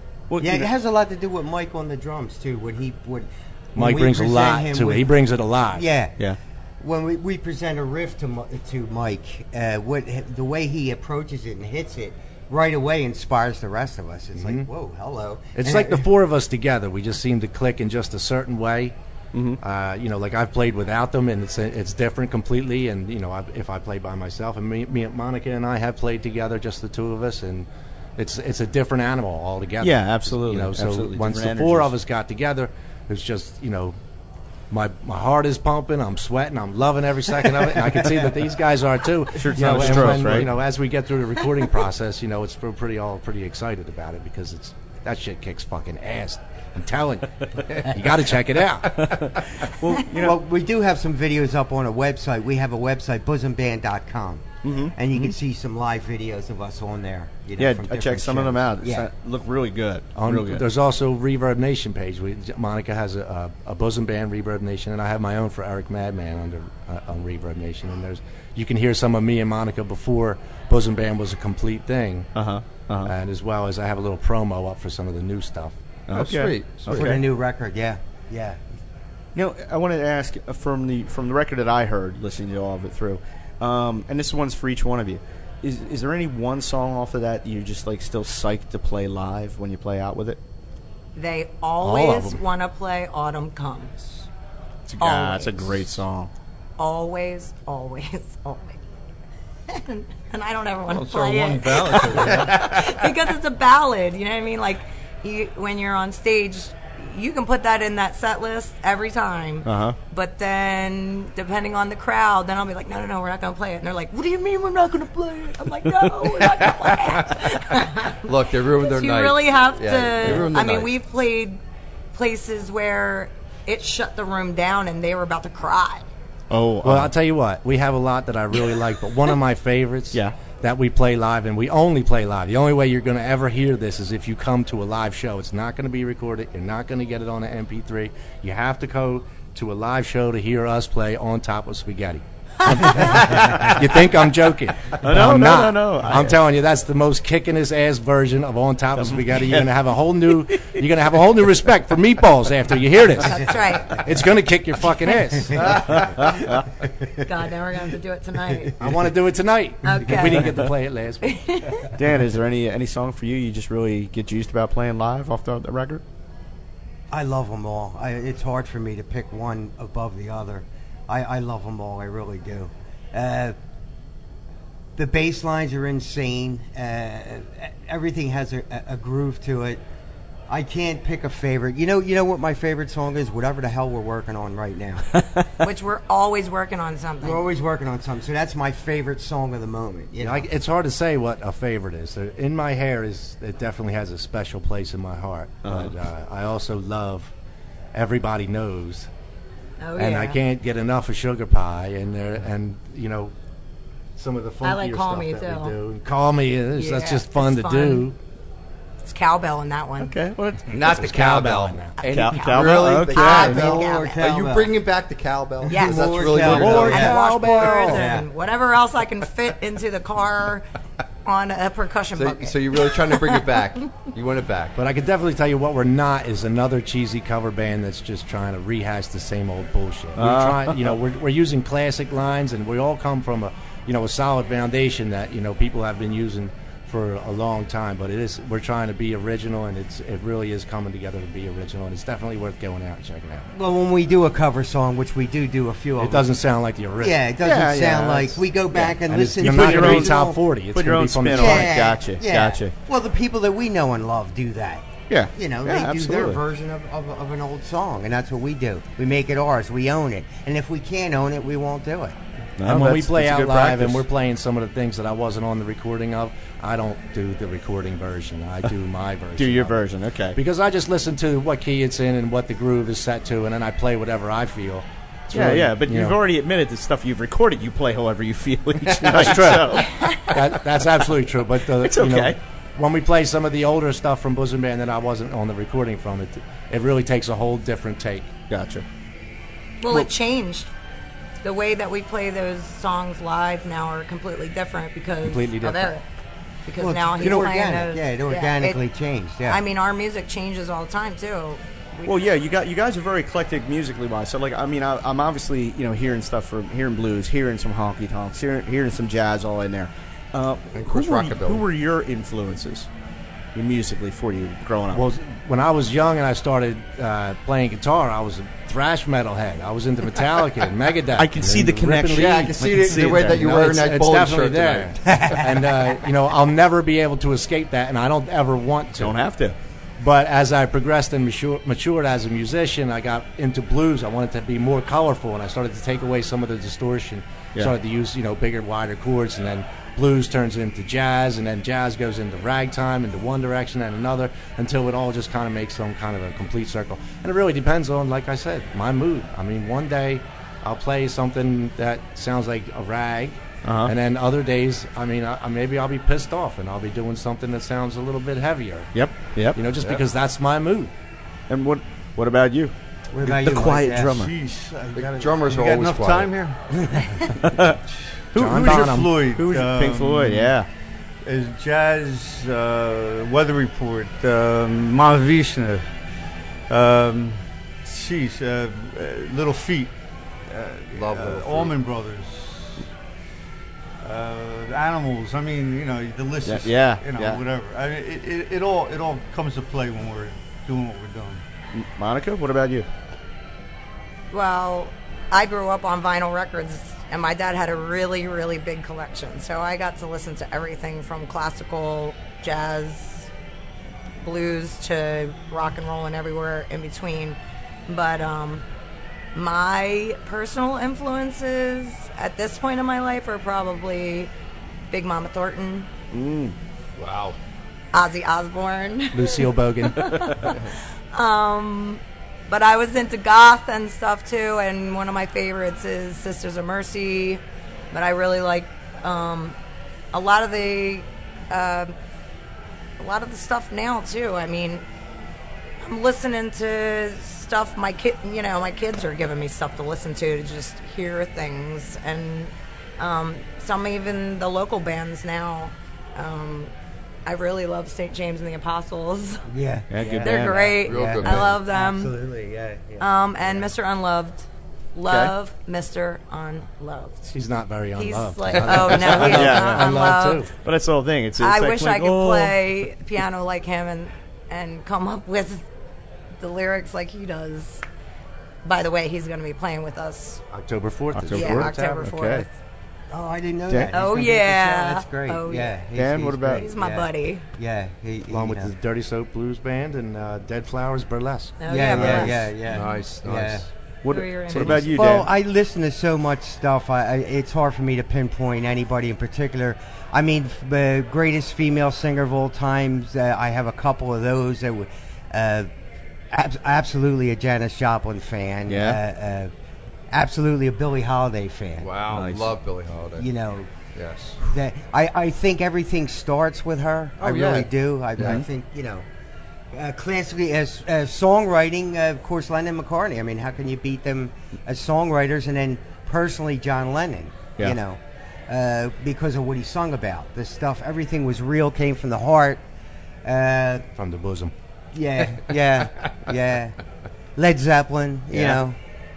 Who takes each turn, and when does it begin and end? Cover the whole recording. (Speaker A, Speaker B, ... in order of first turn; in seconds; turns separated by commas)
Speaker A: 0.3-0.7, Speaker B: 0.4-5.1, Speaker C: 3.8-5.9, Speaker B: 5.7-6.2, Speaker B: 6.8-16.1, Speaker C: 14.4-14.7, Speaker C: 15.6-18.9, Speaker A: 19.3-19.6, Speaker C: 19.6-34.0, Speaker A: 29.8-31.9, Speaker C: 34.7-49.2, Speaker A: 39.4-40.5, Speaker A: 48.9-50.4, Speaker B: 50.1-59.1, Speaker A: 54.6-55.4, Speaker A: 57.6-60.6, Speaker C: 60.2-72.3, Speaker A: 72.3-73.1, Speaker C: 73.0-75.8, Speaker A: 76.1-77.2, Speaker D: 76.1-77.1, Speaker B: 76.9-78.7, Speaker A: 79.3-90.4, Speaker E: 91.2-94.2, Speaker C: 91.8-92.4, Speaker A: 94.9-96.3, Speaker E: 95.0-95.9, Speaker E: 96.8-98.8, Speaker E: 99.7-121.6, Speaker F: 100.9-102.7, Speaker A: 109.7-110.0, Speaker D: 118.2-120.9, Speaker E: 122.1-126.1, Speaker A: 126.5-127.1, Speaker C: 126.8-156.0, Speaker A: 143.4-143.7, Speaker A: 145.0-146.4, Speaker A: 149.0-149.7, Speaker A: 150.3-150.8, Speaker E: 153.2-154.1, Speaker B: 155.5-155.8, Speaker A: 155.8-156.7, Speaker E: 157.2-158.7, Speaker B: 158.5-159.0, Speaker C: 158.8-161.8, Speaker E: 159.8-160.6, Speaker E: 161.2-161.9, Speaker A: 161.9-166.0, Speaker B: 167.1-173.6, Speaker B: 175.0-179.8, Speaker B: 180.5-185.1, Speaker E: 185.6-187.4, Speaker B: 187.2-190.5, Speaker C: 190.2-197.3, Speaker A: 195.7-195.9, Speaker C: 197.9-199.1, Speaker E: 199.8-200.4, Speaker C: 200.0-203.3, Speaker C: 204.2-208.2, Speaker E: 204.6-205.8, Speaker E: 206.8-208.1, Speaker E: 209.0-210.1, Speaker A: 210.0-210.8, Speaker D: 210.7-217.1, Speaker C: 210.8-212.0, Speaker A: 212.1-213.8, Speaker E: 212.1-214.2, Speaker B: 213.2-214.7, Speaker B: 215.6-218.3, Speaker E: 215.7-220.7, Speaker C: 216.4-218.1, Speaker A: 216.6-216.9, Speaker E: 221.2-223.3, Speaker D: 222.2-224.8, Speaker C: 224.8-243.5, Speaker A: 230.2-231.0, Speaker B: 243.5-246.3, Speaker C: 246.0-247.2, Speaker B: 247.0-250.4, Speaker A: 247.4-252.7, Speaker C: 249.1-251.7, Speaker B: 251.3-262.2, Speaker A: 255.1-256.4, Speaker A: 262.6-264.0, Speaker C: 262.6-269.8, Speaker A: 269.4-270.4, Speaker C: 270.4-276.2, Speaker A: 275.3-280.5, Speaker C: 279.0-288.3, Speaker A: 281.8-282.4, Speaker A: 288.5-288.9, Speaker E: 289.8-290.7, Speaker E: 291.4-296.1, Speaker C: 295.2-295.9, Speaker E: 296.7-298.8, Speaker B: 296.8-299.6, Speaker E: 299.5-302.3, Speaker A: 302.1-312.9, Speaker D: 310.7-311.6, Speaker A: 313.6-315.0, Speaker C: 314.9-329.2, Speaker A: 321.2-323.8, Speaker D: 322.1-325.1, Speaker B: 325.1-325.5, Speaker A: 329.0-329.6, Speaker C: 330.0-358.9, Speaker A: 353.6-353.9, Speaker A: 358.9-359.6, Speaker C: 359.5-360.9, Speaker A: 361.5-364.3, Speaker B: 363.1-364.2, Speaker F: 364.1-366.6, Speaker D: 364.9-366.3, Speaker A: 367.4-367.8, Speaker A: 368.3-370.7, Speaker F: 368.4-370.5, Speaker C: 368.4-369.1, Speaker F: 371.2-375.8, Speaker F: 376.7-379.9, Speaker F: 380.5-382.9, Speaker D: 380.9-381.8, Speaker F: 384.0-391.4, Speaker A: 386.4-387.4, Speaker A: 391.7-392.9, Speaker E: 394.3-403.3, Speaker E: 404.2-408.6, Speaker E: 409.4-414.3, Speaker E: 414.9-415.9, Speaker A: 416.1-416.6, Speaker D: 417.0-417.4, Speaker E: 417.9-429.6, Speaker C: 419.1-420.4, Speaker E: 430.1-431.9, Speaker E: 433.0-434.8, Speaker E: 435.8-446.7, Speaker E: 447.3-449.5, Speaker B: 449.5-453.7, Speaker A: 449.9-450.8, Speaker E: 450.2-452.1, Speaker D: 450.8-451.5, Speaker E: 453.0-457.4, Speaker A: 455.1-455.3, Speaker C: 457.3-460.5, Speaker E: 457.9-460.5, Speaker D: 458.6-458.9, Speaker A: 459.0-459.9, Speaker A: 460.6-462.6, Speaker E: 461.4-465.6, Speaker E: 466.4-467.8, Speaker E: 468.6-470.4, Speaker C: 470.5-472.1, Speaker A: 471.1-472.5, Speaker E: 471.3-472.5, Speaker B: 473.1-478.7, Speaker E: 473.9-475.8, Speaker A: 475.9-476.7, Speaker E: 476.5-477.4, Speaker C: 478.3-482.2, Speaker E: 481.6-482.4, Speaker B: 481.7-483.7, Speaker D: 482.0-483.7, Speaker A: 484.0-485.3, Speaker E: 484.1-484.9, Speaker C: 484.5-484.9, Speaker B: 484.9-495.7, Speaker B: 496.3-499.5, Speaker A: 498.7-499.0, Speaker B: 500.1-501.9, Speaker D: 501.8-503.3, Speaker A: 502.1-502.6, Speaker B: 503.2-503.7, Speaker D: 503.9-504.4, Speaker B: 504.4-509.1, Speaker D: 507.2-507.7, Speaker A: 508.2-508.4, Speaker B: 509.7-522.6, Speaker B: 523.2-523.9, Speaker C: 524.0-524.5, Speaker B: 524.9-526.8, Speaker B: 527.4-528.8, Speaker A: 528.3-528.6